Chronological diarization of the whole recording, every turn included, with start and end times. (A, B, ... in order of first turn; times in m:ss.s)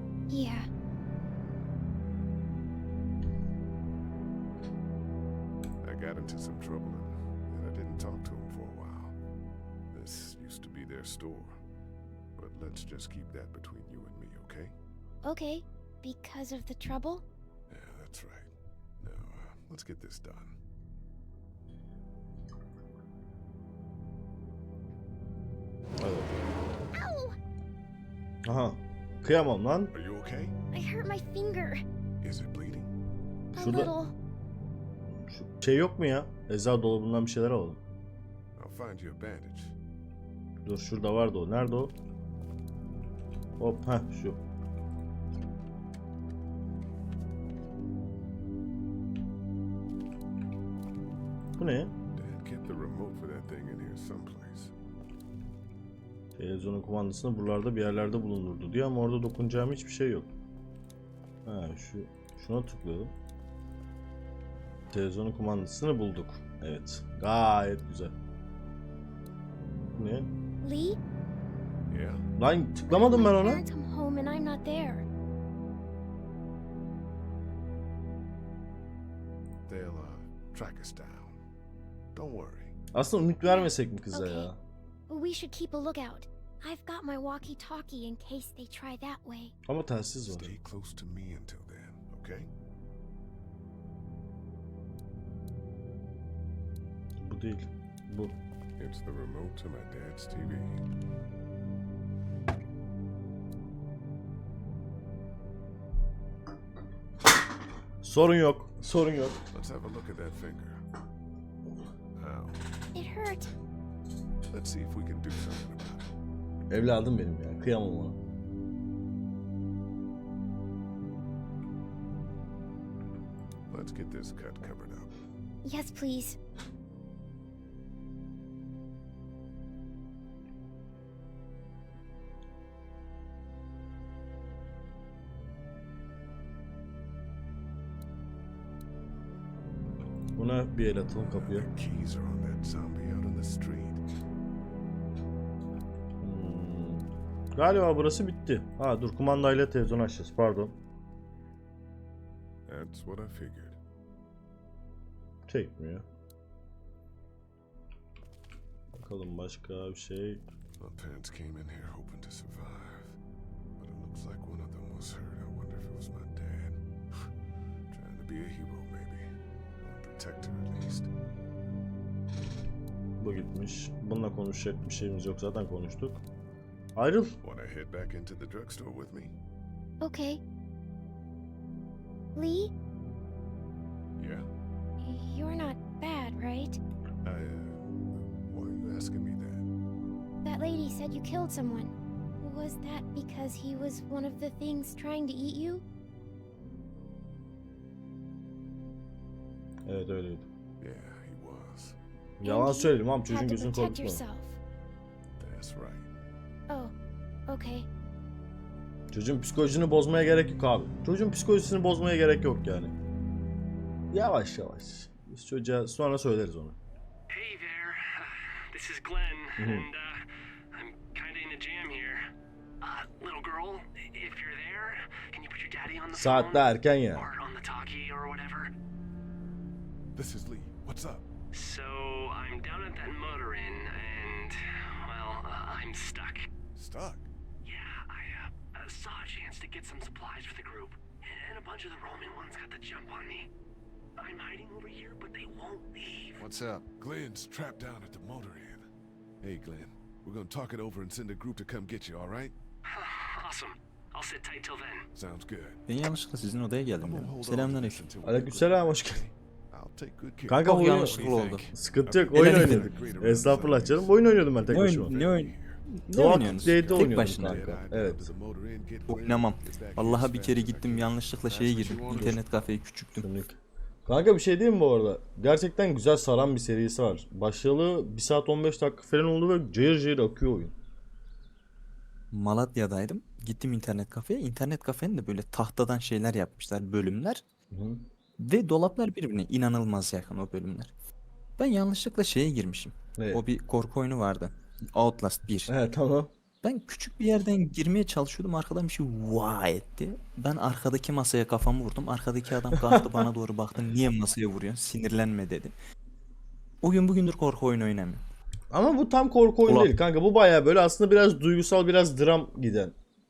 0:00.3-0:00.7 A
0:05.8-0:09.2 B
0:09.9-0:11.6 B
0:12.4-0:14.8 B
0:15.2-0:17.2 A
0:17.7-0:18.5 B
0:19.0-0:20.6 B
0:26.0-0:26.4 C
0:26.9-0:27.4 A
0:28.4-0:29.9 C
0:29.9-0:30.6 B
0:30.7-0:31.8 A
0:32.2-0:32.9 B
0:33.5-0:34.1 A
0:33.6-0:33.9 C
0:35.2-0:37.8 C
0:38.6-0:39.8 B
0:40.6-0:42.0 C
0:43.6-0:44.4 C
0:51.6-0:51.9 C
0:52.2-0:54.7 B
0:56.4-1:00.3 C
1:01.5-1:03.1 C
1:04.9-1:08.1 C
1:10.0-1:10.3 C
1:10.6-1:11.0 A
1:11.9-1:12.3 B
1:12.4-1:13.6 C
1:12.8-1:15.1 A
1:19.7-1:21.4 B
1:22.1-1:22.8 B
1:22.9-1:24.6 C
1:23.5-1:24.5 A
1:25.1-1:29.6 A
1:29.7-1:30.5 C
1:30.3-1:32.5 B
1:37.2-1:38.4 C
1:38.8-1:40.9 B
1:48.0-1:49.4 C
1:49.5-1:50.8 B
1:52.2-1:52.6 B
1:52.9-1:53.5 A
1:54.5-1:56.0 B
1:56.7-1:58.2 C
2:03.7-2:05.1 B
2:05.6-2:06.4 A
2:20.4-2:21.7 C
2:21.2-2:24.0 B
2:26.2-2:30.8 C
2:32.7-2:33.8 B
2:35.5-2:36.0 C
2:39.0-2:40.4 C
2:40.8-2:43.2 B
2:43.8-2:47.3 B
2:47.9-2:49.3 B
2:49.8-2:51.1 B
2:53.2-2:56.2 C
2:57.0-2:57.4 C
2:57.4-2:59.4 B
3:00.0-3:00.4 A
3:02.4-3:02.7 A
3:04.2-3:04.5 B
3:05.0-3:06.8 A
3:07.2-3:09.7 B
3:10.4-3:15.8 A
3:19.9-3:20.5 C
3:20.8-3:22.0 B
3:22.4-3:24.2 C
3:22.4-3:24.6 A
3:25.4-3:26.1 B
3:27.5-3:27.9 A
3:29.1-3:32.9 C
3:34.1-3:36.8 C
3:37.3-3:42.3 D
3:39.6-3:39.9 C
3:42.8-3:48.7 D
3:46.1-3:47.3 C
3:50.2-3:51.3 B
3:51.5-3:56.5 D
3:56.7-3:57.3 B
3:57.6-4:03.5 D
4:04.2-4:06.4 D
4:06.4-4:06.9 E
4:07.0-4:08.9 B
4:09.4-4:12.6 B
4:12.9-4:15.1 D
4:15.2-4:15.8 B
4:15.9-4:18.0 F
4:17.0-4:31.2 B
4:18.2-4:19.2 C
4:20.5-4:21.2 C
4:20.6-4:21.7 F
4:21.1-4:21.7 E
4:21.7-4:25.2 C
4:22.3-4:22.9 F
4:24.7-4:27.7 F
4:26.1-4:28.3 C
4:29.1-4:33.3 F
4:31.5-4:32.4 E
4:32.1-4:32.7 B
4:33.2-4:40.7 C
4:42.3-4:47.4 F
4:47.7-4:48.0 C
4:48.4-4:50.9 F
4:51.6-4:55.7 F
4:53.2-4:53.4 C
4:55.7-4:56.3 C
4:56.6-5:05.8 F
5:02.8-5:03.2 C
5:06.8-5:08.2 F
5:08.7-5:13.0 C
5:09.7-5:09.9 F